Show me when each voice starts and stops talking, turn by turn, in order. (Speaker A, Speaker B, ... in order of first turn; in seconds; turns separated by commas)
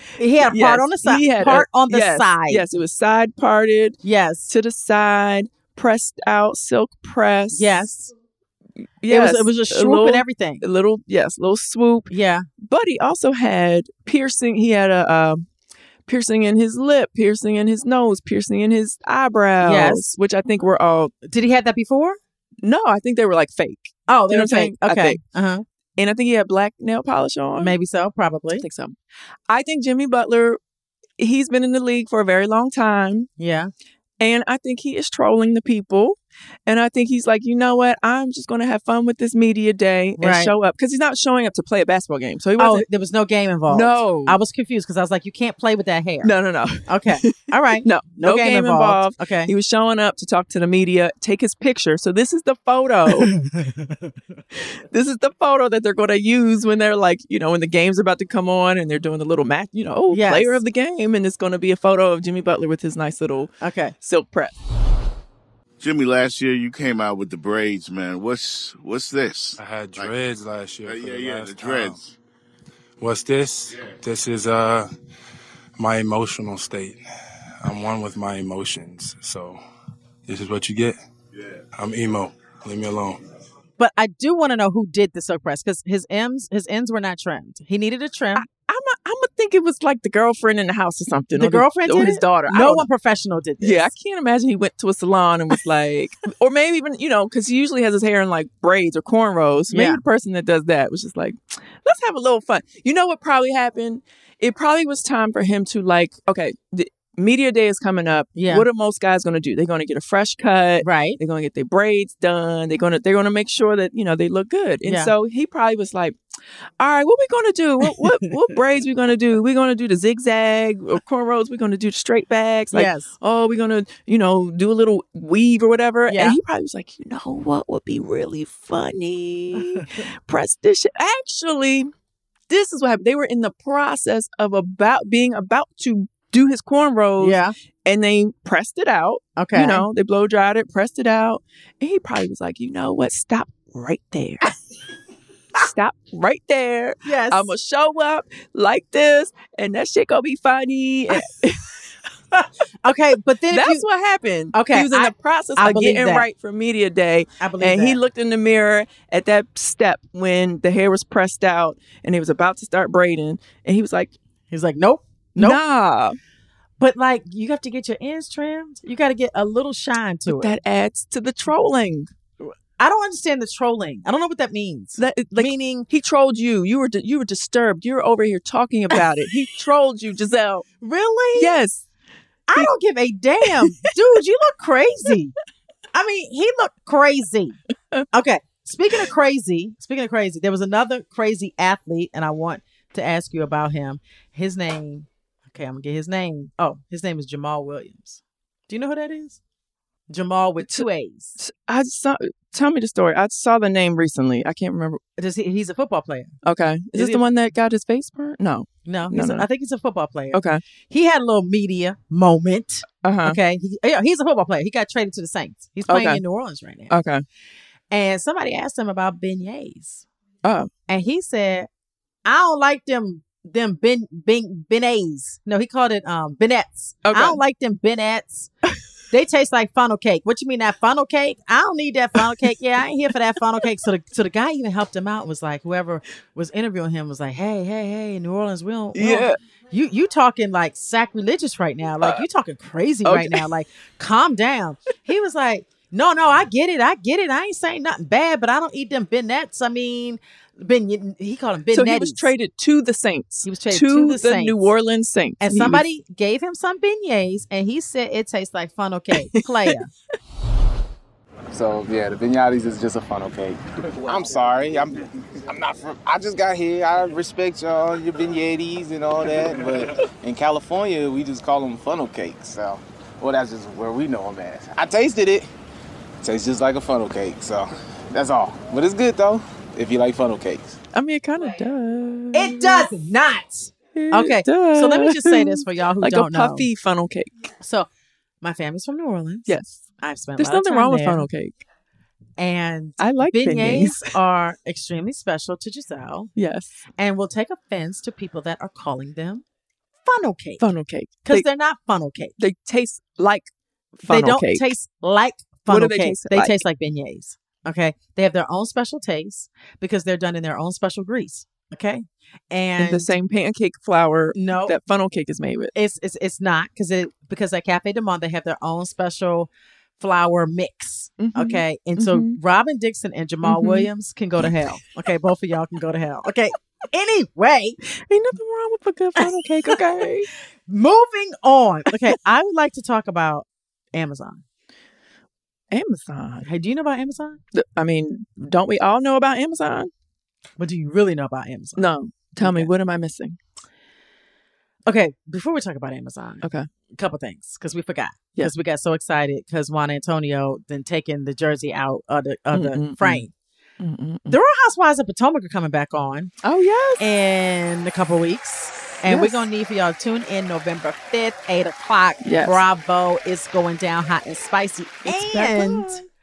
Speaker A: 0.2-2.6, Speaker B: 0.4-7.9, Speaker A: 4.0-4.5, Speaker A: 7.5-8.1, Speaker B: 9.0-15.5, Speaker A: 9.1-10.6, Speaker A: 12.1-12.5, Speaker B: 16.1-21.1, Speaker A: 19.6-20.1, Speaker A: 21.2-22.2, Speaker B: 22.6-25.2, Speaker A: 24.1-25.6, Speaker B: 26.0-27.8, Speaker A: 27.6-28.6, Speaker B: 28.6-29.0, Speaker B: 29.5-30.6, Speaker B: 31.2-33.3, Speaker A: 33.4-33.7, Speaker B: 34.2-42.9, Speaker A: 40.2-40.5, Speaker A: 42.6-46.3, Speaker B: 43.7-44.4, Speaker B: 46.2-53.3, Speaker A: 46.9-49.5, Speaker A: 53.2-53.7, Speaker B: 54.5-64.6, Speaker A: 60.1-60.6, Speaker A: 63.6-63.9, Speaker C: 65.8-70.2, Speaker D: 69.6-72.0, Speaker C: 70.8-72.1, Speaker D: 73.0-74.9, Speaker D: 75.8-77.0, Speaker D: 77.6-79.6, Speaker D: 80.3-81.0, Speaker D: 81.8-83.2, Speaker A: 83.8-88.5, Speaker B: 88.4-92.9, Speaker A: 91.3-93.9, Speaker B: 93.6-116.2, Speaker A: 99.7-100.0, Speaker A: 108.4-108.7, Speaker A: 110.8-111.2, Speaker A: 114.8-115.1, Speaker B: 116.8-131.9, Speaker A: 122.7-123.1, Speaker A: 126.1-126.4, Speaker B: 132.5-144.6, Speaker A: 137.2-137.5, Speaker A: 139.4-139.8, Speaker B: 145.6-151.7, Speaker A: 147.1-147.5, Speaker A: 152.3-153.8, Speaker B: 153.5-164.2, Speaker A: 154.5-156.3, Speaker A: 157.4-158.0, Speaker A: 164.5-165.6, Speaker B: 165.4-166.2, Speaker A: 166.8-170.5, Speaker B: 170.3-172.1, Speaker A: 172.4-175.9, Speaker B: 175.0-180.7, Speaker A: 180.8-181.6, Speaker B: 181.4-181.8, Speaker A: 182.5-185.3, Speaker B: 183.4-183.9, Speaker A: 185.9-187.6, Speaker A: 188.1-199.4, Speaker A: 200.1-201.4, Speaker B: 200.6-200.9, Speaker B: 201.4-205.0, Speaker A: 205.2-206.3, Speaker B: 206.4-209.5, Speaker A: 206.9-207.2, Speaker A: 208.9-216.9, Speaker B: 210.3-210.6, Speaker B: 213.0-213.4, Speaker B: 215.9-216.2, Speaker B: 216.9-217.2, Speaker A: 217.9-220.1, Speaker B: 220.4-220.7, Speaker A: 220.9-221.7, Speaker A: 222.2-228.5, Speaker B: 227.1-227.4, Speaker A: 229.1-252.3, Speaker B: 238.9-239.4, Speaker B: 243.1-243.5, Speaker B: 251.7-255.8, Speaker A: 253.4-254.7, Speaker A: 255.4-259.9, Speaker E: 261.5-275.5, Speaker E: 276.2-280.8, Speaker B: 280.9-282.9, Speaker A: 282.3-286.7, Speaker B: 283.9-287.3, Speaker A: 287.6-287.9, Speaker A: 288.4-291.3, Speaker B: 289.5-289.8, Speaker B: 290.4-291.6, Speaker A: 292.4-296.3, Speaker B: 293.0-294.1, Speaker B: 296.4-296.8, Speaker A: 297.0-299.4, Speaker A: 300.1-300.6, Speaker B: 300.6-301.4, Speaker A: 301.3-302.3, Speaker B: 302.4-304.7, Speaker A: 304.1-313.1, Speaker B: 305.7-306.6, Speaker B: 312.8-315.7, Speaker A: 314.4-314.7, Speaker A: 315.8-327.8, Speaker B: 321.2-322.4, Speaker B: 323.4-323.9, Speaker B: 328.0-330.3, Speaker A: 329.2-329.8, Speaker A: 330.7-334.4, Speaker B: 335.7-336.5, Speaker A: 336.4-337.4, Speaker B: 337.5-339.9, Speaker A: 340.6-342.7, Speaker B: 341.8-343.4, Speaker A: 344.9-353.3, Speaker B: 346.4-346.7, Speaker B: 352.5-353.2, Speaker B: 353.8-354.4, Speaker A: 354.3-356.3, Speaker B: 356.4-357.0, Speaker A: 357.0-366.0, Speaker B: 359.0-359.4, Speaker B: 362.2-362.6, Speaker B: 365.1-366.1